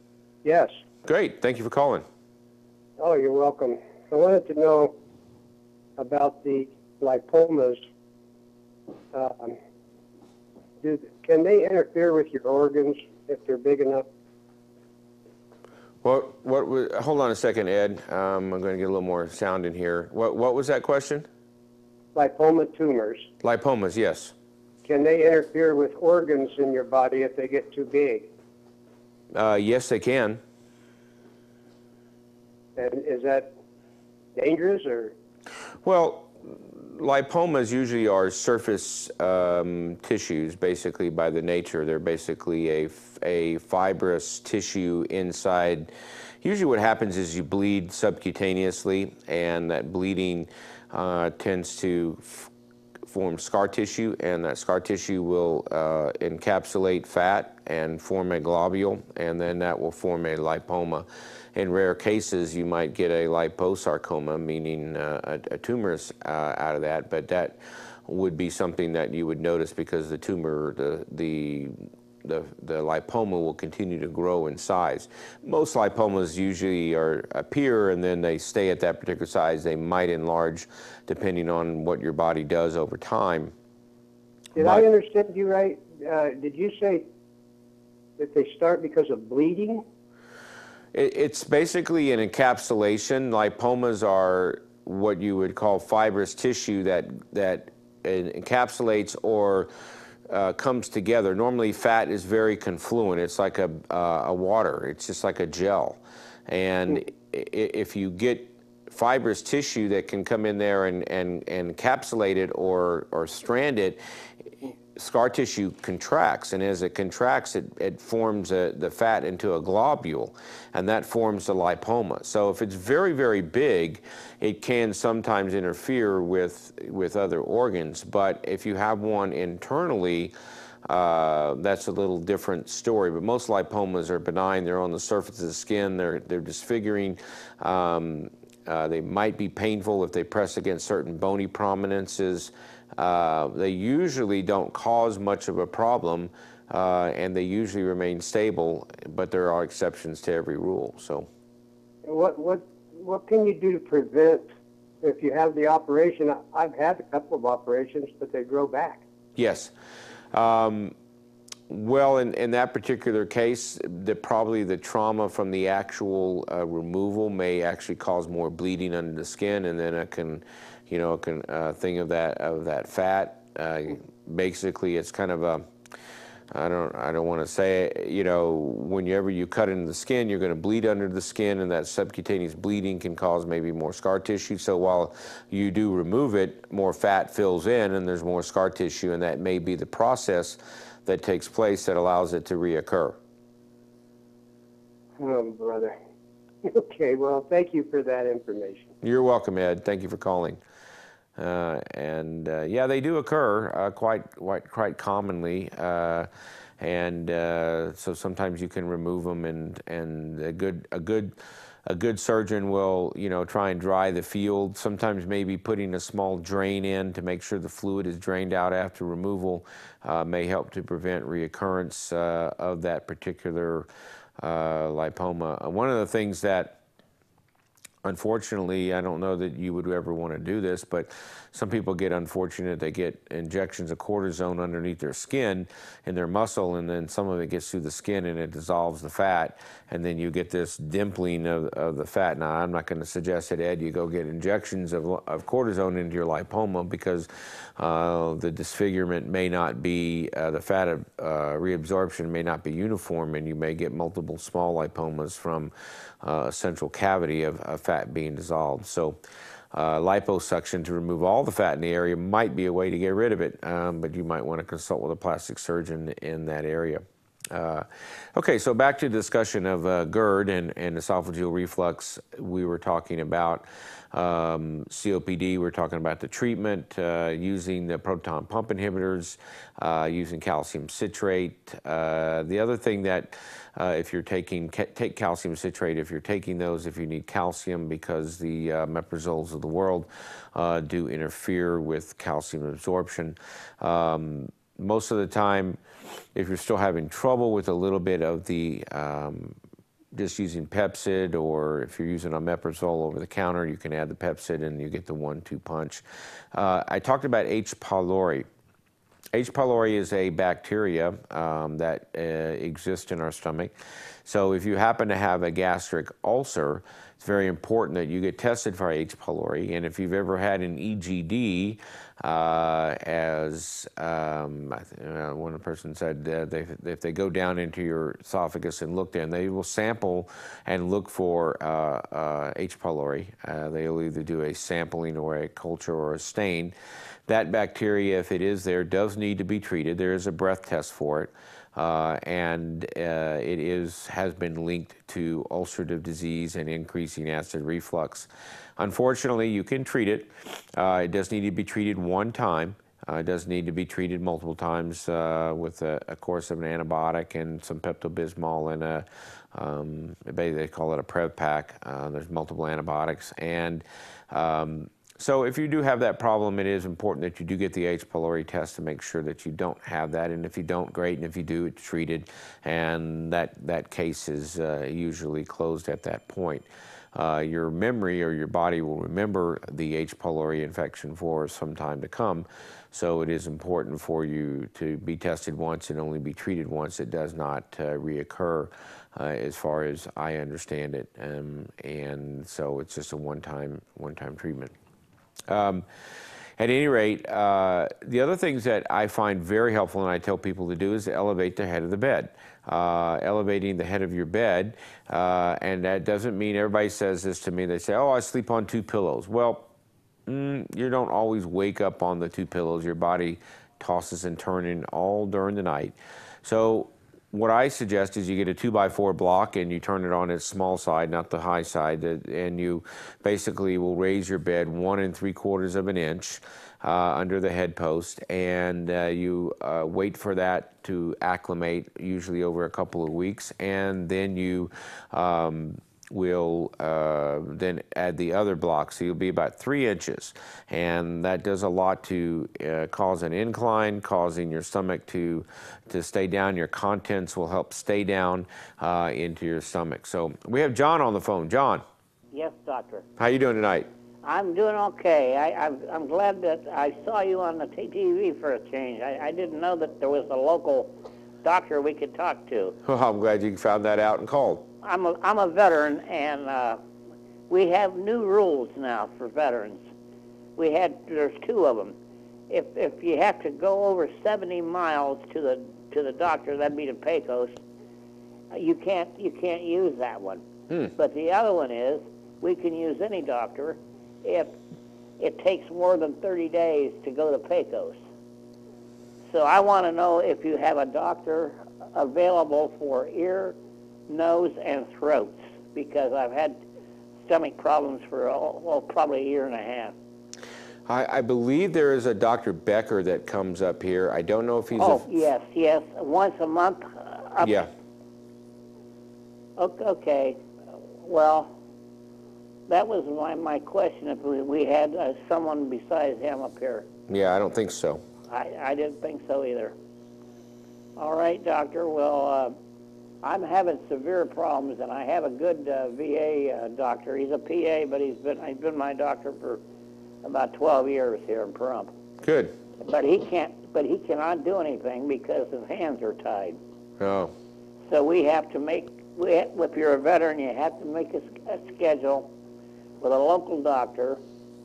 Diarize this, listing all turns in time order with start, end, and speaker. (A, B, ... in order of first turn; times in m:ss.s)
0:00.4-0:00.7 A
0:01.0-0:02.0 B
0:03.0-0:04.9 A
0:06.0-0:07.8 A
0:09.1-0:09.6 A
0:10.8-0:14.0 A
0:16.0-0:21.2 B
0:22.1-0:23.3 A
0:23.4-0:24.3 B
0:24.8-0:28.3 A
0:29.3-0:30.4 B
0:32.8-0:33.5 A
0:34.3-0:35.1 A
0:35.8-0:45.9 B
0:46.4-0:52.5 B
0:53.1-1:23.5 B
1:24.5-1:24.8 B
1:24.5-1:27.0 A
1:28.2-1:29.8 A
1:30.9-1:39.7 B
1:40.3-1:54.0 B
1:55.0-2:10.3 B
2:10.9-2:31.3 B
2:32.0-2:34.4 A
2:35.0-2:39.0 A
2:39.4-2:39.7 B
2:40.3-2:40.9 B
2:41.7-2:55.6 B
2:56.5-3:13.2 B
3:15.2-3:15.9 A
3:16.6-3:18.8 A
3:19.0-3:20.6 B
3:21.4-3:26.3 B
3:26.8-3:31.3 B
3:31.8-3:43.9 B
3:44.4-3:46.8 B
3:48.0-4:19.2 B
4:19.7-4:55.8 B
4:56.3-4:59.6 B
5:00.1-5:08.4 B
5:09.3-5:13.7 B
5:14.2-5:36.7 B
5:37.3-6:34.7 B
6:35.5-6:35.8 B
6:36.6-6:49.7 B
6:50.3-7:31.8 B
7:32.3-7:33.0 C
7:33.2-7:33.9 B
7:34.2-7:40.9 C
7:41.4-7:42.7 C
7:42.8-7:44.6 B
7:44.8-7:46.8 C
7:47.5-7:49.8 C
7:50.6-7:51.9 C
7:52.5-7:57.6 C
7:58.5-8:00.4 C
8:00.9-8:04.5 C
8:05.2-8:08.0 C
8:09.3-8:13.6 C
8:14.1-8:16.6 C
8:17.2-8:19.9 C
8:20.9-8:25.1 B
8:24.8-8:27.6 C
8:27.4-8:27.7 B
8:29.6-8:30.4 C
8:31.0-8:31.5 C
8:32.7-8:36.8 C
8:37.1-8:38.0 B
8:38.3-8:39.7 C
8:41.0-8:42.5 C
8:43.2-8:49.6 C
8:50.2-8:51.9 C
8:52.2-8:52.5 B
8:52.8-8:56.6 C
8:57.0-8:57.3 B
8:57.9-9:02.3 C
9:03.0-9:04.2 C